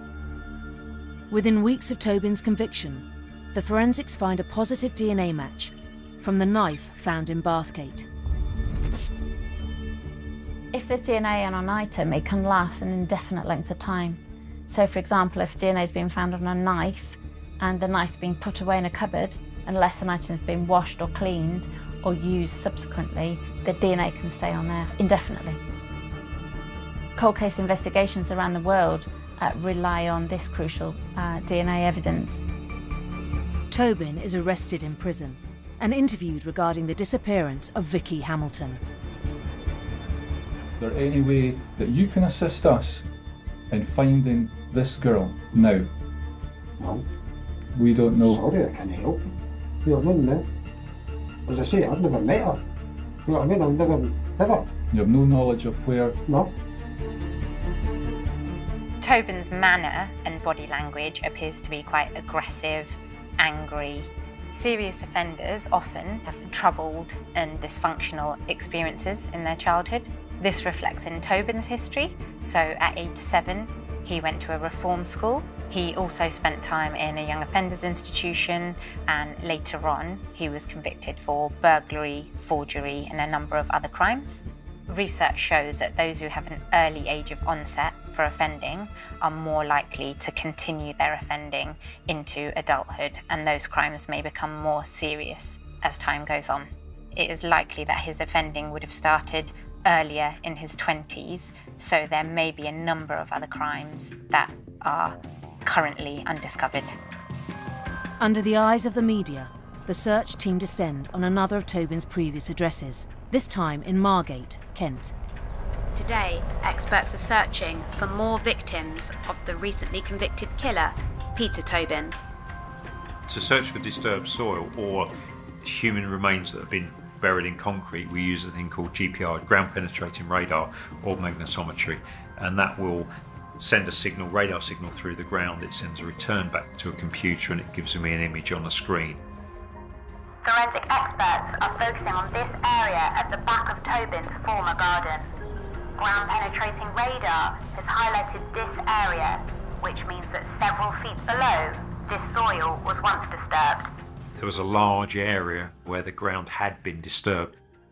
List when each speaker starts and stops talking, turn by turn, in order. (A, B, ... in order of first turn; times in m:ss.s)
0:01.3-0:08.1 A
0:10.7-0:25.6 B
0:27.2-0:32.4 B
0:33.7-0:38.8 A
0:40.8-0:43.1 C
0:43.7-0:45.9 C
0:46.8-0:47.0 D
0:47.8-0:48.5 C
0:48.2-0:49.3 D
0:49.8-0:50.4 D
0:51.5-0:52.6 D
0:53.3-0:54.7 D
0:54.9-0:56.2 C
0:56.2-0:56.5 D
0:59.0-1:47.0 E
1:48.2-1:55.1 A
1:56.0-2:02.2 F
2:03.3-2:19.2 G
2:20.4-2:25.3 H
2:26.0-2:33.9 H
2:34.4-2:37.6 G